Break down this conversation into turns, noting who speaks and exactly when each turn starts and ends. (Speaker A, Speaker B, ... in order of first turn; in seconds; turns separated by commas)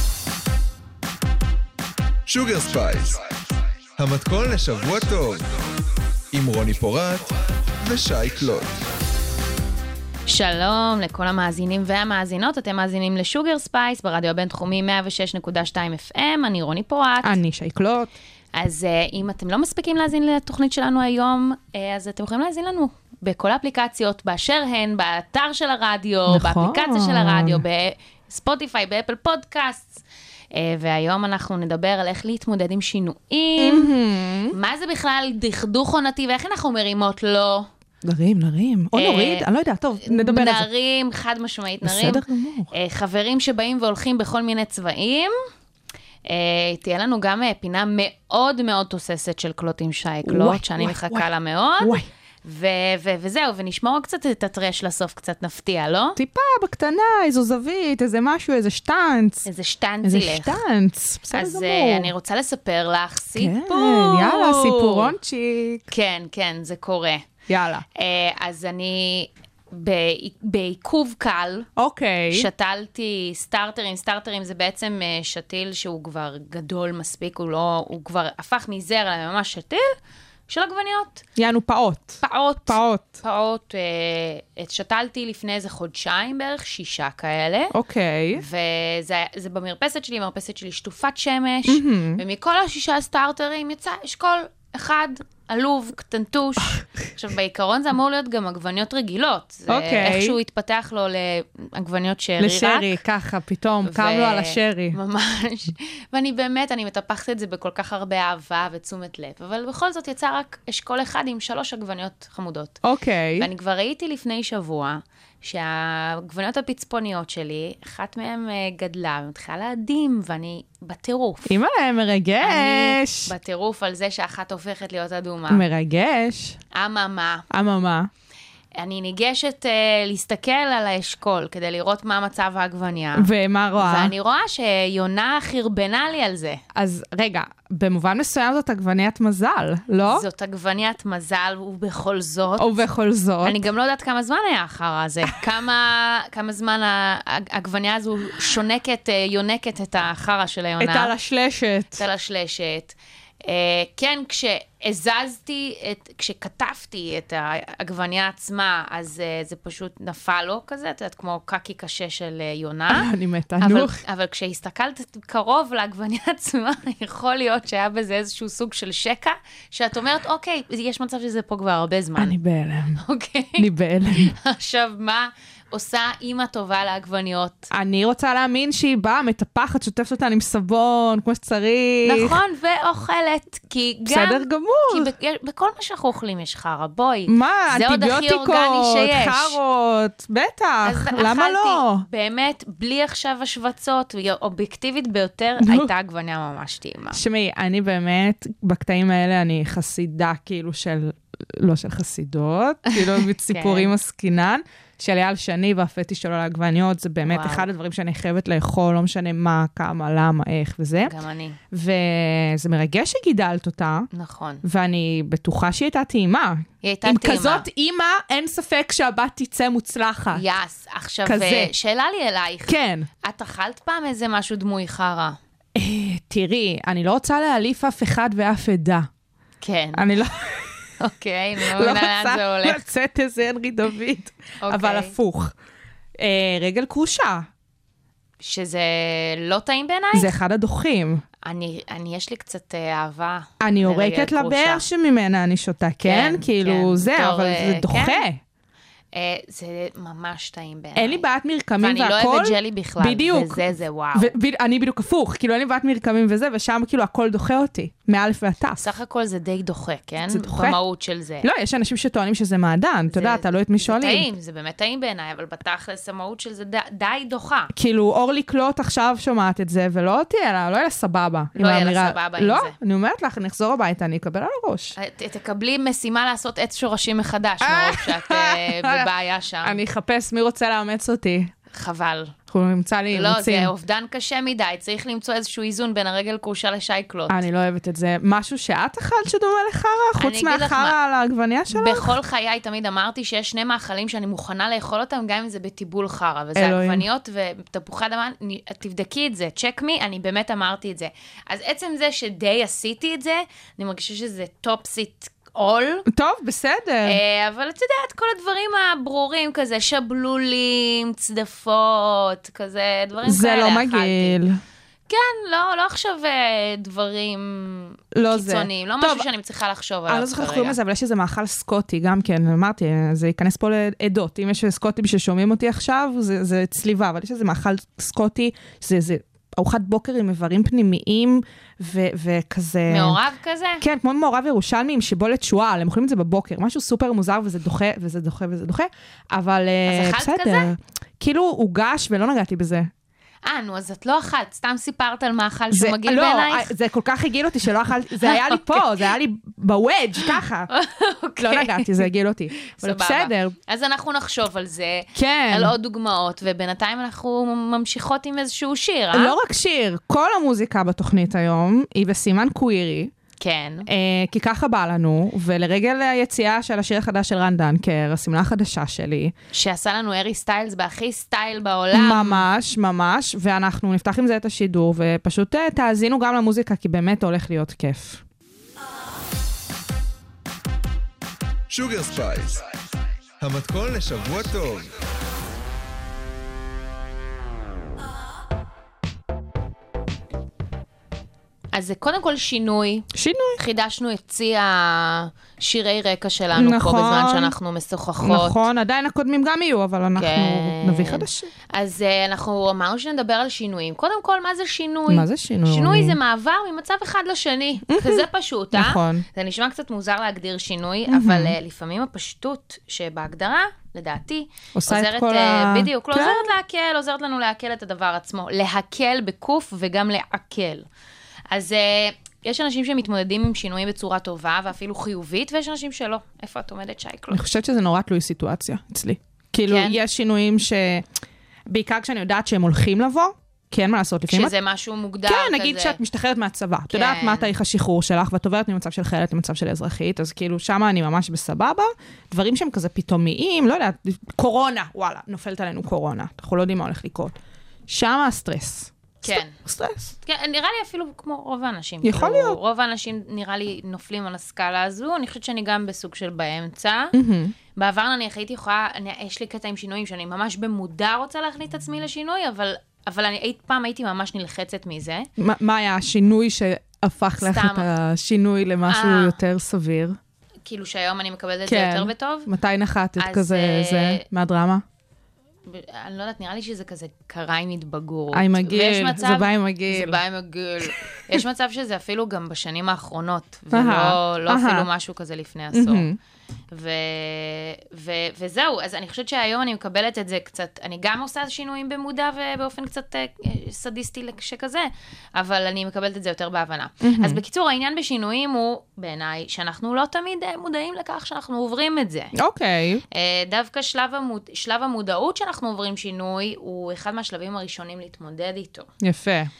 Speaker A: 2.3-3.2, Speaker A: 4.0-5.5, Speaker A: 6.3-8.8, Speaker B: 10.3-17.4, Speaker C: 17.2-18.1, Speaker B: 18.5-30.0, Speaker C: 26.3-27.6, Speaker B: 30.5-33.9, Speaker C: 33.6-34.5, Speaker B: 34.5-37.7, Speaker C: 38.0-40.7, Speaker B: 38.9-39.5, Speaker B: 40.0-45.3, Speaker C: 41.8-42.7, Speaker B: 46.3-56.2, Speaker C: 50.2-51.3, Speaker C: 51.8-52.1, Speaker C: 56.1-59.4, Speaker B: 59.4-60.6, Speaker C: 60.0-62.1, Speaker B: 61.3-65.1, Speaker C: 63.4-65.9, Speaker B: 65.9-67.3, Speaker C: 67.5-67.8, Speaker B: 67.9-71.7, Speaker C: 71.8-72.5, Speaker B: 72.3-79.9, Speaker B: 80.5-81.2, Speaker C: 81.3-83.2, Speaker B: 82.2-87.8, Speaker C: 87.7-88.4, Speaker B: 88.3-103.0, Speaker C: 91.7-92.2, Speaker C: 99.7-100.3, Speaker C: 102.4-105.0, Speaker B: 103.8-112.8, Speaker C: 112.8-113.5, Speaker B: 113.4-121.6, Speaker C: 121.5-123.3, Speaker B: 122.4-125.7, Speaker C: 125.5-126.6, Speaker B: 126.7-127.4, Speaker C: 127.5-128.1, Speaker B: 128.8-136.6, Speaker C: 133.2-134.1, Speaker C: 136.7-140.3, Speaker B: 140.0-142.8, Speaker C: 142.6-143.6, Speaker B: 143.4-151.1, Speaker C: 150.8-152.0, Speaker B: 152.0-172.4, Speaker C: 162.9-164.0, Speaker C: 172.2-173.0, Speaker B: 172.9-177.7, Speaker C: 173.6-174.3, Speaker C: 177.7-182.4, Speaker B: 182.0-189.6, Speaker C: 184.1-185.1, Speaker C: 187.3-192.0, Speaker B: 190.8-197.2, Speaker C: 195.6-195.9, Speaker C: 197.1-211.1, Speaker B: 202.9-203.9, Speaker B: 207.2-207.7, Speaker B: 211.0-211.6, Speaker C: 211.7-214.1, Speaker B: 214.1-214.6, Speaker C: 214.6-220.4, Speaker B: 216.8-217.7, Speaker B: 220.3-225.4, Speaker C: 221.2-221.7, Speaker C: 222.7-223.1, Speaker C: 225.7-229.1, Speaker B: 229.6-230.1, Speaker C: 229.9-230.7, Speaker B: 231.0-232.8, Speaker C: 231.6-235.5, Speaker B: 234.6-235.1, Speaker C: 236.2-237.5, Speaker B: 238.4-240.3, Speaker C: 240.1-241.2, Speaker B: 241.4-244.8, Speaker C: 243.6-248.4, Speaker B: 246.0-248.2, Speaker B: 249.1-251.2, Speaker C: 250.9-253.6, Speaker B: 251.8-254.3, Speaker C: 254.1-258.9, Speaker B: 258.8-261.5, Speaker C: 260.3-260.8, Speaker C: 261.4-264.3, Speaker B: 263.1-267.7, Speaker C: 267.7-274.9, Speaker B: 271.6-272.7, Speaker B: 275.0-279.8, Speaker C: 277.6-279.1, Speaker C: 279.6-281.5, Speaker B: 281.7-282.3, Speaker C: 282.5-283.7, Speaker B: 283.1-287.4, Speaker C: 287.3-292.1, Speaker B: 290.2-291.0, Speaker B: 291.7-306.1, Speaker C: 296.5-297.0, Speaker C: 306.1-307.2, Speaker B: 307.0-314.4, Speaker C: 313.2-314.6, Speaker B: 315.1-320.8, Speaker C: 318.1-319.3, Speaker C: 320.1-333.2, Speaker B: 332.9-333.8, Speaker C: 333.8-342.9, Speaker B: 339.9-340.7, Speaker B: 343.4-346.7, Speaker C: 345.7-350.7, Speaker B: 348.2-348.9, Speaker B: 350.3-352.1, Speaker C: 351.4-353.6, Speaker B: 352.6-359.4, Speaker C: 355.1-355.7, Speaker C: 359.1-363.1, Speaker B: 363.4-363.9, Speaker C: 363.9-369.3, Speaker B: 369.5-372.5, Speaker C: 371.9-378.2, Speaker A: 381.7-382.6, Speaker A: 383.4-384.9, Speaker B: 391.7-398.6, Speaker C: 393.1-393.6, Speaker C: 396.5-397.5, Speaker C: 398.2-401.5, Speaker B: 400.1-420.9, Speaker C: 405.1-406.2, Speaker C: 407.9-409.2, Speaker C: 411.1-411.6, Speaker C: 414.7-416.5, Speaker B: 421.5-427.4, Speaker C: 427.3-431.1, Speaker B: 429.6-430.0, Speaker C: 431.7-434.5, Speaker B: 434.3-436.0, Speaker C: 435.2-447.4, Speaker B: 436.9-437.5, Speaker C: 447.9-450.1, Speaker B: 449.2-449.6, Speaker B: 450.2-457.1, Speaker C: 452.0-452.6, Speaker C: 457.1-457.5, Speaker B: 457.7-465.3, Speaker C: 465.4-470.2, Speaker B: 467.4-467.9, Speaker B: 468.9-469.4, Speaker B: 470.6-472.5, Speaker C: 471.6-474.8, Speaker B: 473.2-474.2, Speaker B: 475.6-486.1, Speaker C: 478.3-480.2, Speaker C: 483.7-484.9, Speaker C: 485.7-486.2, Speaker B: 486.7-502.3, Speaker C: 497.0-497.4, Speaker C: 502.3-503.0, Speaker B: 503.1-508.9, Speaker C: 509.0-509.5